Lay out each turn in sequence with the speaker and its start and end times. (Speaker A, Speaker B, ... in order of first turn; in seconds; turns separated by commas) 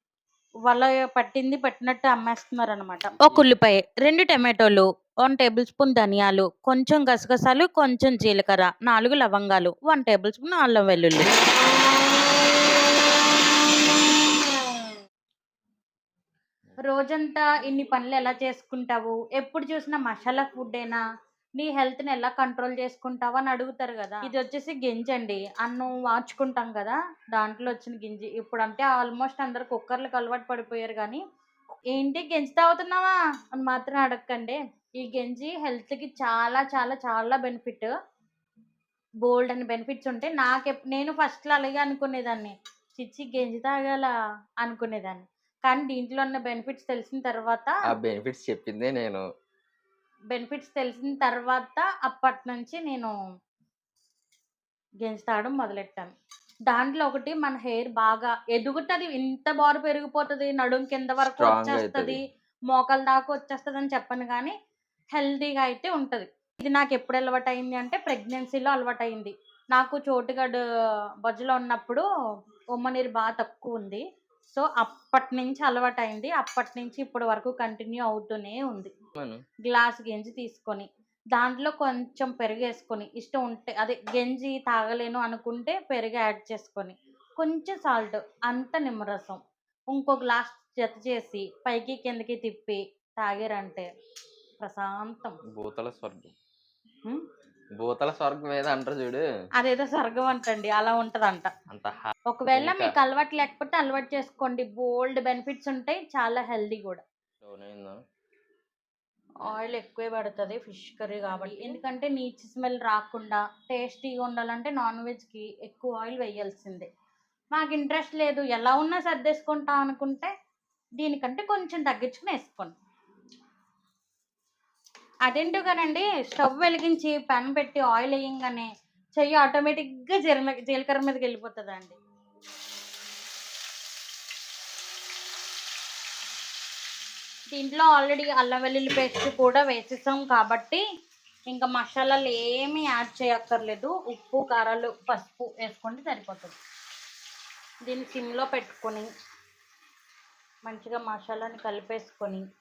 Speaker A: 0.7-11.3, Speaker A: 16.9-21.0, Speaker A: 21.6-31.2, Speaker A: 31.9-37.9, Speaker A: 39.2-47.8, Speaker B: 47.9-49.2, Speaker A: 50.3-53.1, Speaker A: 55.0-56.1, Speaker A: 56.7-64.5, Speaker B: 61.4-62.2, Speaker A: 65.1-70.6, Speaker A: 71.2-72.1, Speaker A: 72.8-78.9, Speaker A: 79.7-89.4, Speaker A: 89.9-93.9, Speaker A: 94.6-95.4, Speaker B: 95.5-96.3, Speaker B: 97.8-99.2, Speaker A: 99.6-101.5, Speaker B: 101.7-102.9, Speaker A: 102.3-107.0, Speaker B: 107.4-108.0, Speaker A: 109.5-116.9, Speaker A: 117.5-120.3, Speaker A: 121.0-122.8, Speaker A: 125.3-132.0, Speaker A: 137.5-140.8, Speaker A: 141.5-146.6, Speaker A: 147.8-149.1, Speaker A: 150.7-152.4